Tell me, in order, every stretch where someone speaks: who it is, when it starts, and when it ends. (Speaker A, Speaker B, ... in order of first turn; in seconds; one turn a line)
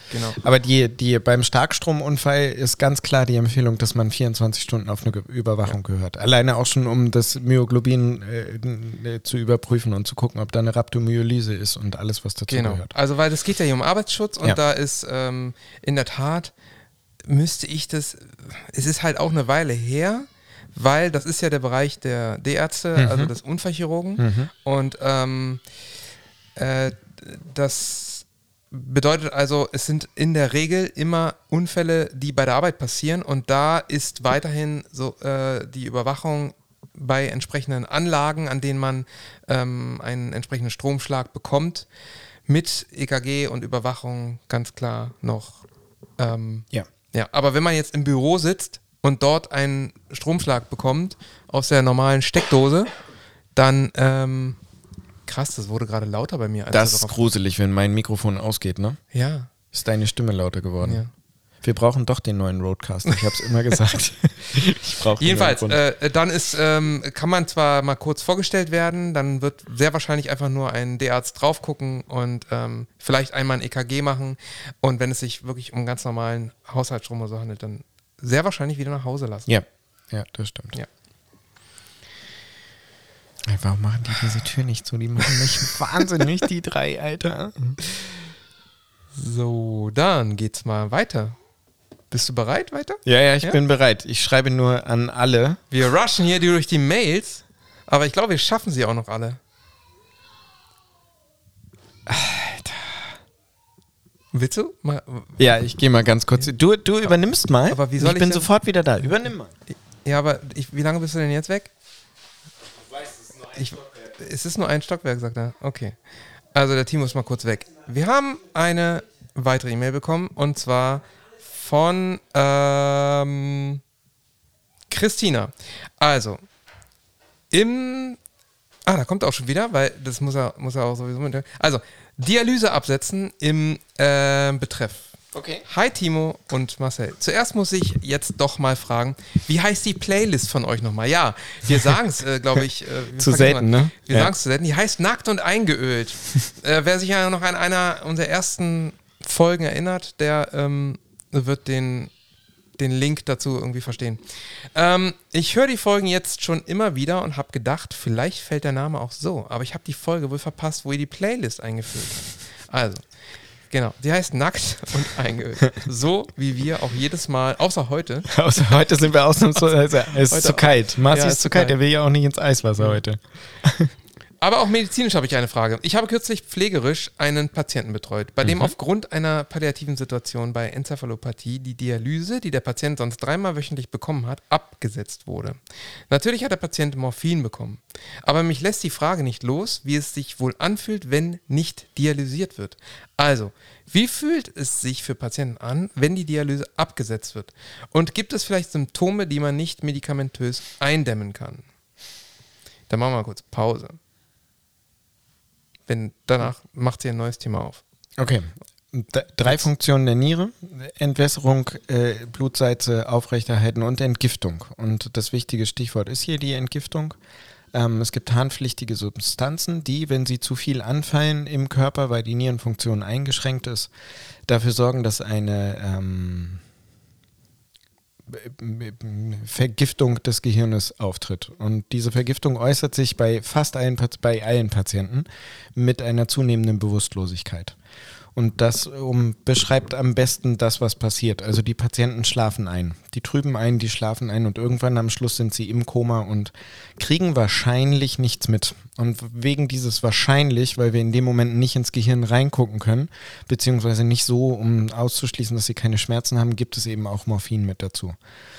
Speaker A: 0.1-0.4
Speaker B: 0.3-12.9
Speaker A: 12.5-16.5
Speaker A: 17.2-25.6
Speaker B: 22.9-23.3
Speaker B: 24.2-24.5
Speaker A: 26.6-41.9
Speaker A: 42.5-45.6
Speaker A: 46.2-52.9
Speaker A: 53.5-54.6
Speaker A: 55.2-57.2
Speaker B: 56.7-59.0
Speaker A: 59.1-59.5
Speaker B: 59.7-61.0
Speaker A: 60.8-61.1
Speaker B: 61.6-65.8
Speaker A: 65.2-79.5
Speaker B: 79.5-80.8
Speaker B: 83.5-87.8
Speaker A: 89.1-91.3
Speaker A: 92.1-93.6
Speaker B: 93.0-95.6
Speaker A: 95.7-99.4
Speaker B: 102.1-102.9
Speaker A: 104.3-105.4
Speaker B: 105.4-109.5
Speaker A: 107.7-108.5
Speaker A: 110.0-111.7
Speaker A: 113.5-116.0
Speaker A: 116.5-123.8
Speaker A: 124.9-126.4
Speaker A: 127.5-128.2
Speaker A: 128.8-135.1
Speaker B: 135.3-135.6
Speaker A: 135.7-152.1
Speaker B: 143.2-144.3
Speaker A: 152.8-168.3
Speaker B: 168.3-173.9
Speaker A: 169.6-171.8
Speaker A: 174.4-201.7
Speaker B: 178.4-178.7
Speaker A: 202.9-204.0
Speaker A: 205.9-207.8
Speaker B: 208.2-217.2
Speaker B: 217.7-223.9
Speaker B: 224.5-226.6
Speaker B: 228.3-237.8
Speaker B: 238.3-258.1